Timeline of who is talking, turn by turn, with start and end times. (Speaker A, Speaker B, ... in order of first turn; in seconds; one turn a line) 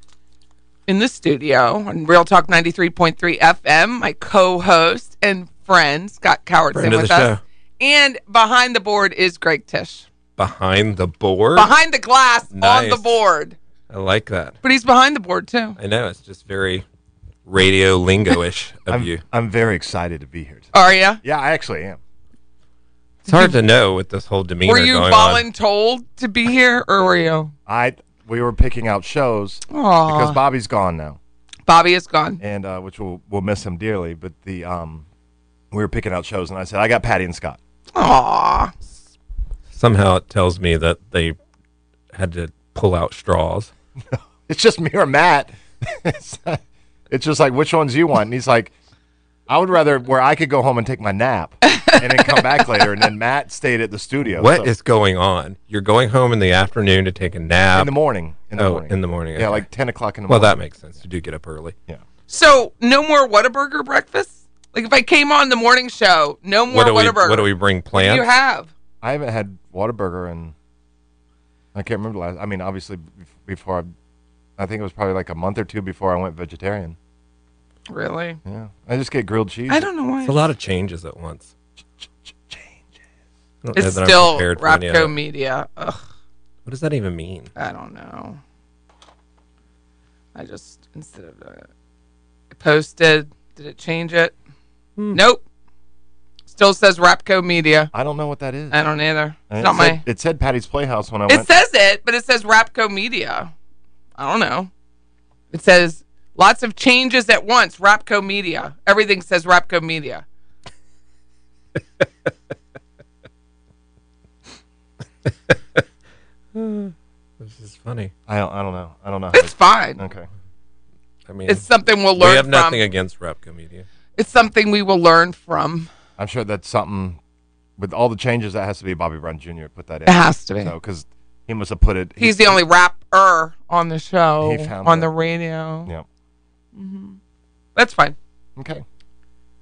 Speaker A: 0.9-10.1
Speaker B: 6.7-7.4
Speaker B: 10.4-11.7
Speaker A: 11.5-13.6
Speaker B: 12.5-13.1
Speaker B: 13.9-14.6
Speaker A: 14.6-15.8
Speaker B: 15.8-16.8
Speaker B: 17.4-19.2
Speaker C: 18.9-22.0
Speaker A: 20.7-21.2
Speaker B: 23.2-25.4
Speaker A: 23.3-23.5
Speaker A: 24.6-27.5
Speaker C: 27.7-31.2
Speaker A: 29.7-30.4
Speaker A: 31.7-32.4
Speaker C: 32.4-35.0
Speaker C: 35.7-37.6
Speaker A: 37.9-38.7
Speaker B: 39.7-41.4
Speaker B: 42.1-43.7
Speaker C: 44.1-48.7
Speaker C: 49.5-54.7
Speaker A: 51.7-52.4
Speaker B: 54.4-57.9
Speaker C: 57.7-60.6
Speaker B: 58.5-59.6
Speaker B: 60.3-61.7
Speaker A: 62.3-68.7
Speaker B: 66.7-68.3
Speaker C: 69.0-70.5
Speaker C: 71.7-73.9
Speaker C: 74.6-77.0
Speaker A: 77.9-78.4
Speaker C: 78.4-79.9
Speaker A: 79.7-80.5
Speaker B: 80.2-81.5
Speaker C: 82.0-82.9
Speaker B: 83.6-85.1
Speaker A: 83.7-86.0
Speaker B: 86.6-87.5
Speaker A: 87.5-88.4
Speaker A: 90.3-91.7
Speaker A: 92.5-94.3
Speaker A: 95.1-95.4
Speaker A: 96.5-97.9
Speaker C: 97.9-98.8
Speaker A: 98.7-100.0
Speaker C: 99.5-101.5
Speaker A: 101.3-103.5
Speaker A: 104.2-104.7
Speaker A: 105.5-110.2
Speaker B: 115.5-115.8
Speaker B: 116.5-118.1
Speaker C: 118.3-120.3
Speaker A: 119.3-120.0
Speaker B: 121.3-123.8
Speaker A: 121.5-122.8
Speaker A: 124.2-125.9
Speaker C: 126.2-127.2
Speaker C: 127.8-132.6
Speaker A: 130.1-130.7
Speaker A: 132.2-135.9
Speaker C: 134.4-135.1
Speaker A: 136.7-137.2
Speaker A: 137.8-138.2
Speaker C: 138.6-138.8